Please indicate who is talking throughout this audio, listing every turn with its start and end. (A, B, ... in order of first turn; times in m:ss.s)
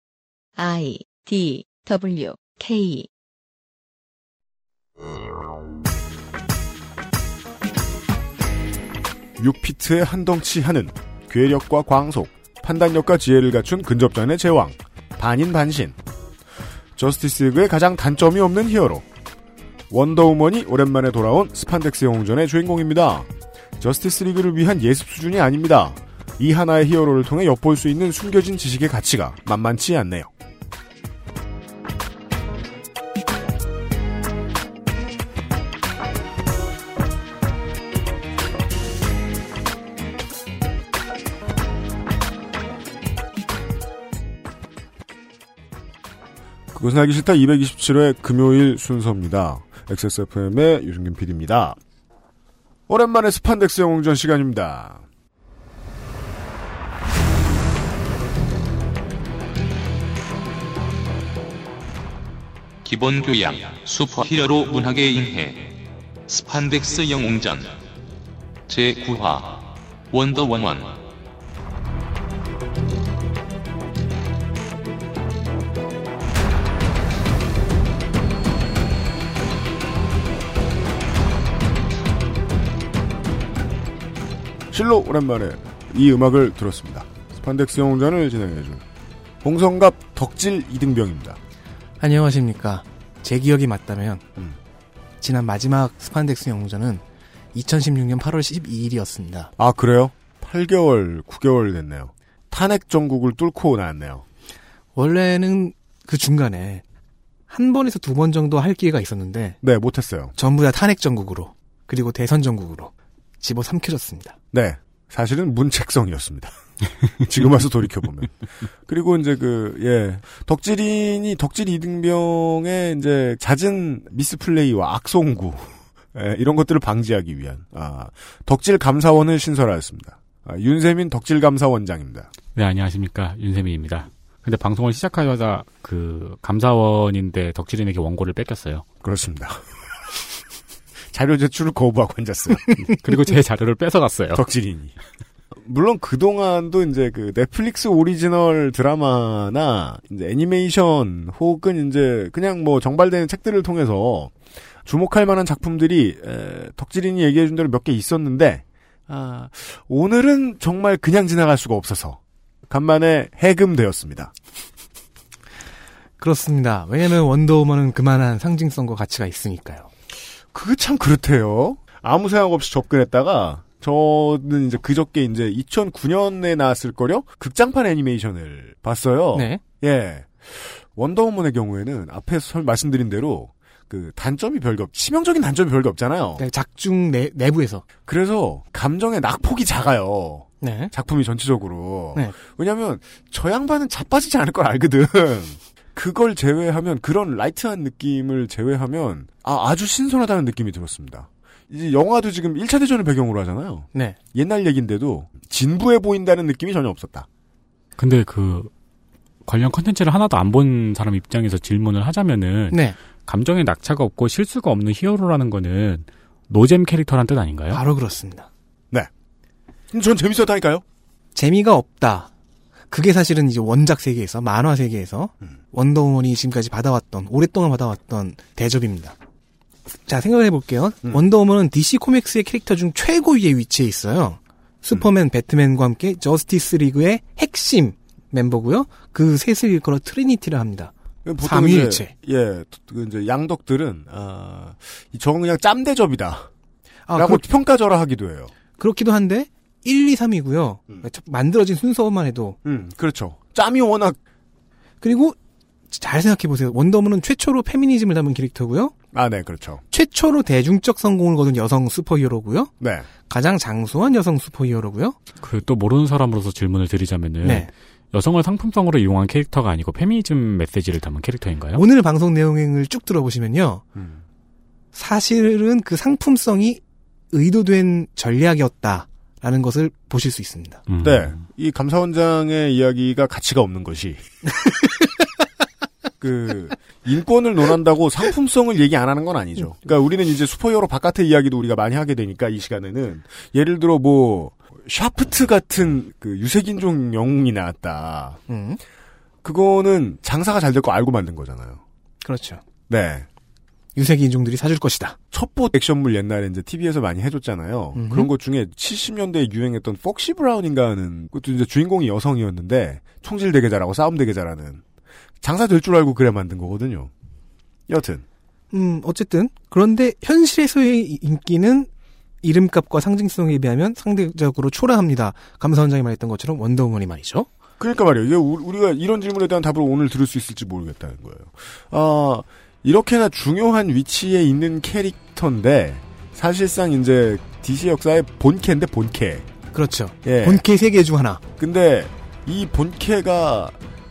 0:00.6-0:03.1 A
0:09.4-0:16.0 B
0:17.0-0:19.0 B
0:19.9-0:30.3 B
0:46.7-0:51.8 B
0:52.9-0:55.0 B
1:02.8-1:07.8 C
1:08.7-1:11.0 C
1:24.7-1:28.8 B
1:29.4-1:31.4 B
1:32.0-1:34.2 D
1:35.2-1:37.0 D
1:37.5-1:39.5 D
1:39.6-1:44.2 B
1:44.9-1:46.8 D
1:47.5-1:49.6 D
1:49.6-1:50.3 B
1:50.4-1:54.3 D
1:54.5-1:56.5 B
1:57.2-1:58.3 B
1:58.8-2:12.3 B
2:12.5-2:18.8 E
2:19.0-2:19.6 B
2:21.1-2:22.7 B
2:22.8-2:24.4 E
2:24.3-2:24.9 B
2:25.6-2:34.3 B
2:34.8-2:44.3 B
2:46.2-2:49.9 D
2:50.5-3:06.4 B
2:59.3-2:59.6 D
3:06.4-3:07.8 D
3:08.0-3:27.3 B
3:10.6-3:10.9 D
3:28.0-3:28.7 E
3:29.4-3:37.8 E
3:32.7-3:33.0 D
3:37.7-3:38.5 D
3:39.9-3:40.8 B
3:41.3-3:42.3 D
3:42.9-3:49.1 D
3:50.1-4:02.1 D
4:01.2-4:06.5 B
4:07.1-4:07.4 D
4:07.2-4:08.5 B
4:08.8-4:12.6 D
4:12.6-4:14.2 B
4:15.0-4:15.4 D
4:15.9-4:18.9 D
4:19.1-4:19.8 B
4:19.9-4:22.7 D
4:22.8-4:23.1 B
4:23.3-4:25.2 D
4:25.4-4:31.8 E
4:27.4-4:27.7 D
4:31.7-4:33.8 D
4:34.9-4:36.8 D
4:37.3-4:40.8 D
4:40.9-4:41.4 E
4:41.0-4:44.2 B
4:46.2-4:58.4 B
4:58.5-4:58.8 D
4:59.4-5:01.8 B
5:02.2-5:02.6 D
5:02.9-5:03.2 B
5:03.9-5:05.2 D
5:05.3-5:14.8 B
5:07.9-5:08.3 D
5:15.4-5:17.1 B
5:17.9-5:18.2 B
5:18.7-5:21.9 D
5:22.4-5:27.5 D
5:27.8-5:39.5 B
5:39.7-5:41.4 D
5:40.2-5:40.6 B
5:41.6-5:43.8 B